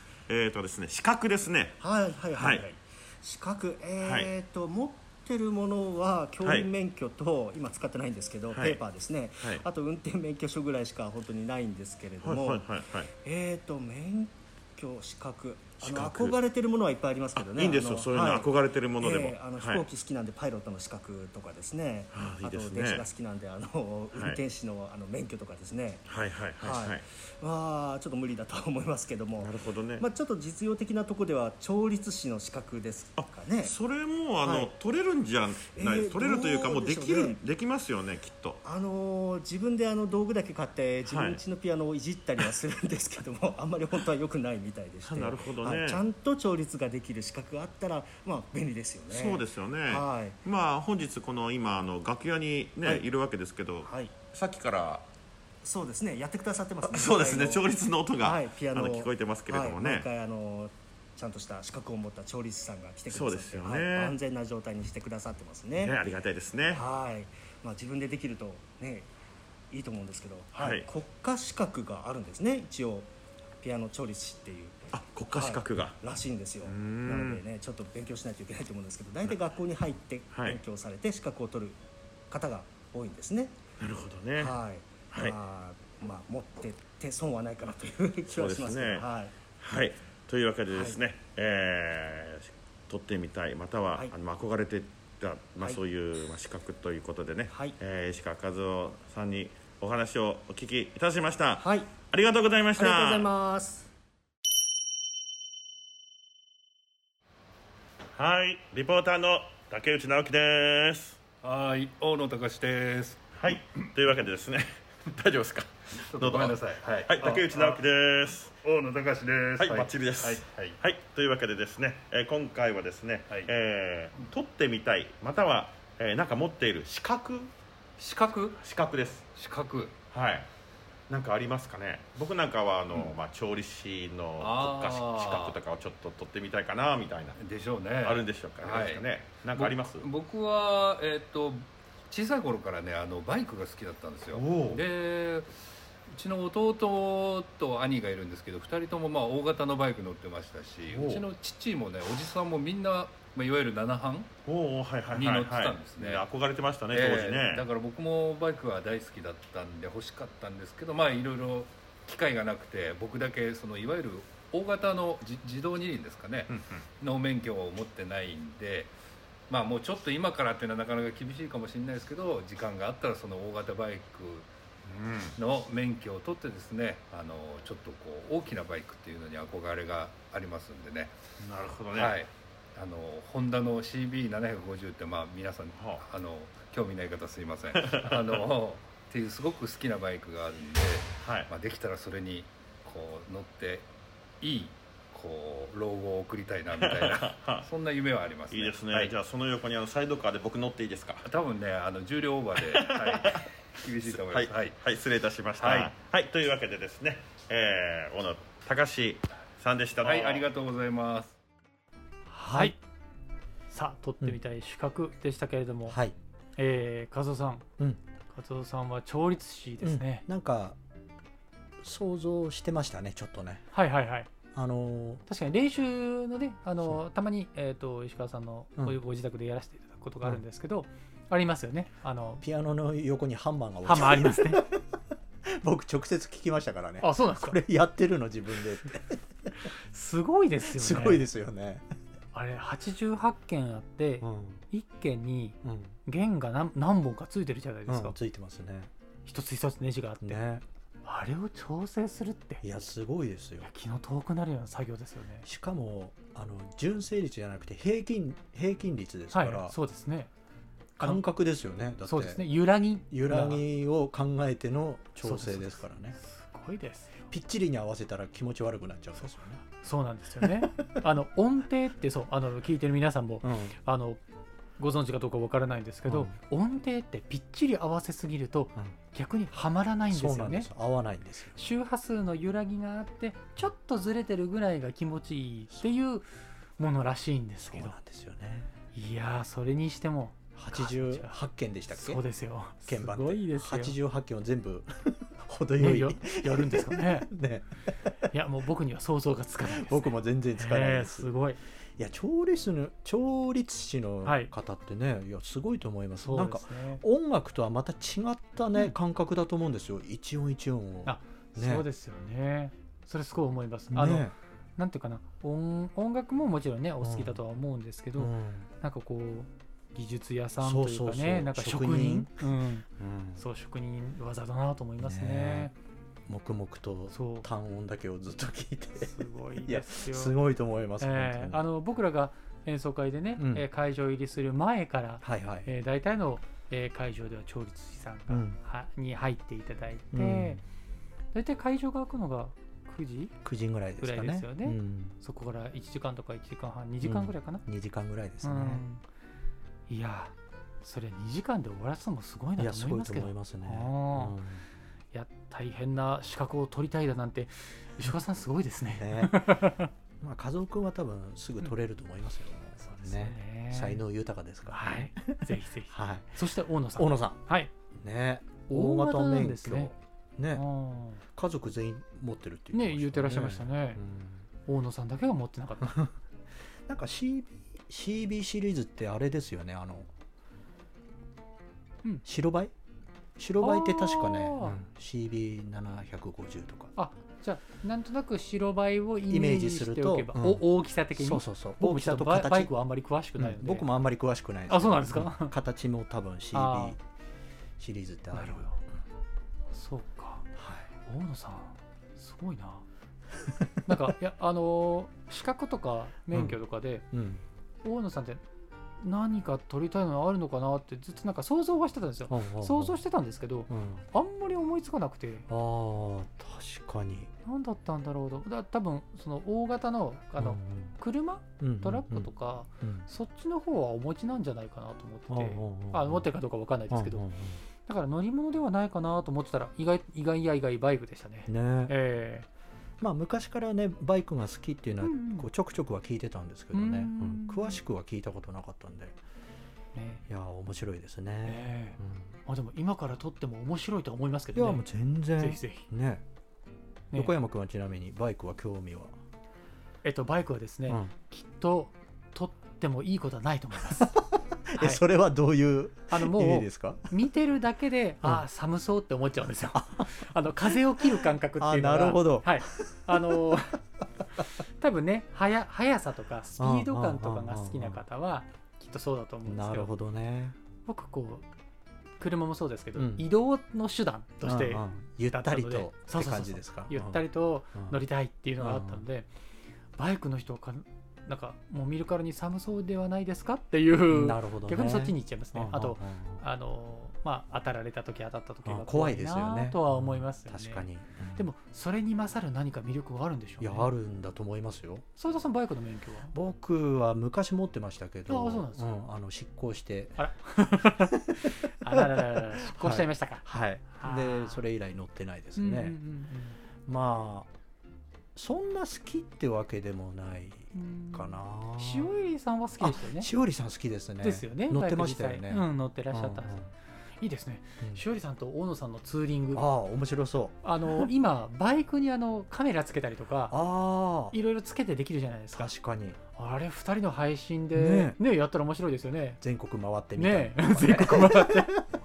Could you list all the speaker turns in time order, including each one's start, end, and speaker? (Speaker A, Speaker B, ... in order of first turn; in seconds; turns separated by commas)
Speaker A: 0.3-1.8, Speaker B: 1.8-26.1, Speaker A: 2.3-2.7, Speaker A: 4.0-4.3, Speaker A: 6.4-6.7, Speaker A: 8.5-8.8, Speaker A: 12.2-13.1, Speaker A: 15.8-16.4, Speaker A: 17.4-19.9, Speaker A: 22.1-23.1, Speaker A: 24.1-24.4, Speaker A: 26.1-27.0, Speaker B: 26.6-33.8, Speaker A: 29.4-30.1, Speaker A: 33.2-38.6, Speaker B: 34.4-34.7, Speaker B: 35.7-37.4, Speaker B: 38.6-50.4, Speaker A: 41.1-41.4, Speaker A: 45.0-46.0, Speaker A: 49.1-55.1, Speaker B: 53.8-54.1, Speaker B: 55.6-66.0, Speaker A: 56.8-60.1, Speaker A: 63.1-64.2, Speaker A: 65.8-66.8, Speaker B: 66.7-69.1, Speaker B: 69.7-73.1, Speaker A: 70.5-70.9, Speaker B: 73.6-81.8, Speaker A: 74.9-76.0, Speaker A: 76.6-77.4, Speaker A: 80.3-80.6, Speaker B: 82.3-83.6, Speaker A: 83.8-84.5, Speaker B: 84.4-89.3, Speaker A: 85.1-85.4, Speaker A: 88.3-89.1, Speaker A: 89.6-103.3, Speaker B: 90.7-91.0, Speaker B: 97.5-97.8, Speaker B: 101.6-102.0, Speaker B: 102.8-103.9, Speaker A: 108.2-111.2, Speaker C: 111.4-113.8, Speaker A: 113.4-118.5, Speaker C: 116.0-117.8, Speaker C: 118.5-120.8, Speaker A: 119.6-127.5, Speaker C: 128.0-128.6, Speaker A: 128.6-129.2, Speaker C: 129.3-130.0, Speaker A: 130.1-130.5, Speaker A: 131.1-137.4, Speaker C: 134.4-135.6, Speaker C: 137.4-145.5, Speaker A: 138.0-140.1, Speaker A: 144.3-144.8, Speaker C: 146.1-154.3, Speaker A: 150.9-151.2, Speaker A: 154.5-157.7, Speaker C: 155.1-156.2, Speaker C: 156.9-168.9, Speaker A: 166.5-166.8, Speaker C: 169.5-174.5, Speaker A: 174.9-175.4, Speaker C: 175.4-181.2, Speaker A: 181.4-182.2, Speaker C: 181.9-193.9, Speaker A: 185.7-186.0, Speaker A: 187.8-188.4, Speaker A: 191.2-191.5, Speaker C: 194.4-199.1, Speaker A: 196.8-197.7, Speaker A: 198.5-201.3, Speaker C: 201.2-204.8, Speaker A: 202.7-203.5, Speaker A: 204.1-210.5, Speaker C: 205.6-205.9, Speaker C: 210.0-211.4, Speaker D: 212.4-212.8, Speaker E: 212.4-212.8, Speaker E: 213.7-216.0, Speaker D: 215.9-216.2, Speaker E: 216.6-217.7, Speaker E: 218.3-220.2, Speaker D: 219.8-220.8, Speaker D: 221.8-223.7, Speaker E: 223.7-224.3, Speaker D: 224.5-225.2, Speaker E: 225.3-232.4, Speaker D: 232.4-234.9, Speaker E: 233.8-234.6, Speaker D: 235.4-239.2, Speaker E: 237.0-237.6, Speaker E: 239.9-241.3, Speaker D: 240.7-241.9, Speaker E: 242.3-248.2, Speaker D: 244.2-244.6, Speaker D: 245.6-246.0, Speaker D: 247.9-248.9, Speaker E: 249.3-250.4, Speaker D: 250.2-250.6, Speaker E: 251.0-252.6, Speaker D: 252.6-253.7, Speaker E: 253.6-255.5, Speaker D: 255.4-259.8, Speaker E: 259.3-260.3, Speaker D: 261.0-262.5, Speaker E: 262.1-263.6, Speaker D: 263.1-266.2, Speaker E: 265.2-267.3, Speaker D: 267.3-269.6, Speaker E: 269.6-274.2, Speaker D: 270.4-270.9, Speaker D: 273.4-273.8, Speaker E: 274.8-280.7, Speaker D: 276.1-276.4, Speaker D: 280.1-281.6, Speaker E: 281.6-286.2, Speaker E: 286.8-288.0, Speaker D: 287.6-288.7, Speaker E: 288.9-291.3, Speaker D: 290.6-292.2, Speaker E: 291.9-294.0, Speaker D: 292.8-297.7, Speaker E: 295.8-297.3, Speaker E: 298.3-301.6, Speaker D: 299.7-301.3, Speaker D: 302.0-311.9, Speaker E: 304.2-304.5, Speaker E: 306.2-307.0, Speaker E: 311.1-325.7, Speaker D: 313.9-314.4, Speaker D: 317.0-317.4, Speaker D: 318.2-318.7, Speaker D: 320.6-322.5, Speaker D: 323.0-323.4, Speaker D: 325.0-325.7, Speaker D: 326.3-331.6, Speaker E: 327.1-327.5, Speaker E: 329.0-330.4, Speaker E: 331.0-340.6, Speaker D: 333.4-333.6, Speaker D: 335.2-335.7, Speaker D: 338.3-338.6, Speaker D: 340.1-340.6, Speaker E: 341.3-343.4, Speaker D: 343.4-345.2, Speaker E: 344.0-347.6, Speaker D: 347.0-348.8, Speaker E: 348.4-349.0, Speaker E: 349.9-354.4, Speaker D: 352.6-354.6, Speaker E: 355.1-359.9, Speaker D: 358.9-359.6, Speaker D: 360.2-366.4, Speaker E: 362.8-364.0, Speaker E: 364.7-367.7, Speaker D: 367.0-367.4, Speaker D: 367.9-370.7, Speaker E: 368.7-369.9, Speaker E: 370.5-371.2, Speaker D: 371.2-374.4, Speaker E: 372.7-374.0, Speaker E: 374.7-376.1, Speaker D: 376.9-380.1, Speaker D: 382.2-382.7, Speaker D: 383.4-386.9, Speaker E: 383.6-384.8, Speaker E: 387.0-393.9, Speaker D: 389.3-392.7, Speaker D: 393.4-397.0, Speaker E: 394.7-395.5, Speaker E: 396.5-397.0, Speaker D: 397.8-398.7, Speaker E: 398.3-398.8, Speaker E: 399.7-400.5, Speaker D: 400.6-400.9, Speaker E: 401.1-402.9, Speaker D: 403.5-404.1, Speaker E: 403.9-407.1, Speaker D: 407.1-407.4, Speaker E: 407.8-408.4, Speaker E: 409.0-415.5, Speaker D: 412.3-413.0, Speaker D: 413.7-414.1, Speaker D: 415.5-417.3, Speaker E: 417.4-427.3, Speaker D: 420.4-421.0, Speaker D: 421.6-422.3, Speaker D: 422.8-423.1, Speaker D: 425.3-426.3, Speaker D: 426.9-427.6, Speaker E: 427.9-432.5, Speaker D: 431.5-431.9, Speaker D: 433.0-439.2, Speaker E: 435.0-435.5, Speaker E: 436.7-437.8, Speaker E: 439.9-440.2, Speaker D: 440.3-442.3, Speaker E: 441.4-444.9, Speaker D: 444.6-446.2, Speaker E: 445.4-445.9, Speaker D: 447.1-449.1, Speaker E: 450.0-454.1, Speaker D: 450.9-451.1, Speaker D: 454.0-457.0, Speaker E: 454.8-455.0, Speaker E: 456.1-463.8, Speaker D: 459.7-460.8, Speaker D: 461.6-463.5, Speaker E: 464.6-469.9, Speaker D: 466.6-468.0, Speaker D: 469.5-470.6, Speaker E: 470.9-471.4, Speaker E: 472.2-479.3, Speaker D: 473.0-473.3, Speaker D: 474.4-477.2, Speaker D: 478.6-479.0, Speaker E: 480.0-493.9, Speaker D: 484.1-486.4, Speaker D: 488.6-491.5, Speaker D: 493.6-495.1, Speaker E: 495.2-496.3, Speaker D: 496.3-506.0, Speaker E: 498.3-498.9, Speaker E: 500.2-504.6, Speaker E: 505.6-506.6, Speaker D: 506.9-507.5, Speaker D: 508.4-512.1, Speaker E: 510.7-513.3, Speaker D: 512.8-516.7, Speaker E: 514.2-516.6, Speaker E: 517.2-519.6, Speaker D: 519.5-521.1, Speaker E: 520.6-523.6, Speaker D: 523.5-524.4, Speaker E: 524.3-525.7, Speaker D: 525.5-526.2, Speaker E: 526.4-529.4, Speaker D: 527.8-528.2, Speaker D: 529.4-531.9, Speaker E: 530.2-531.7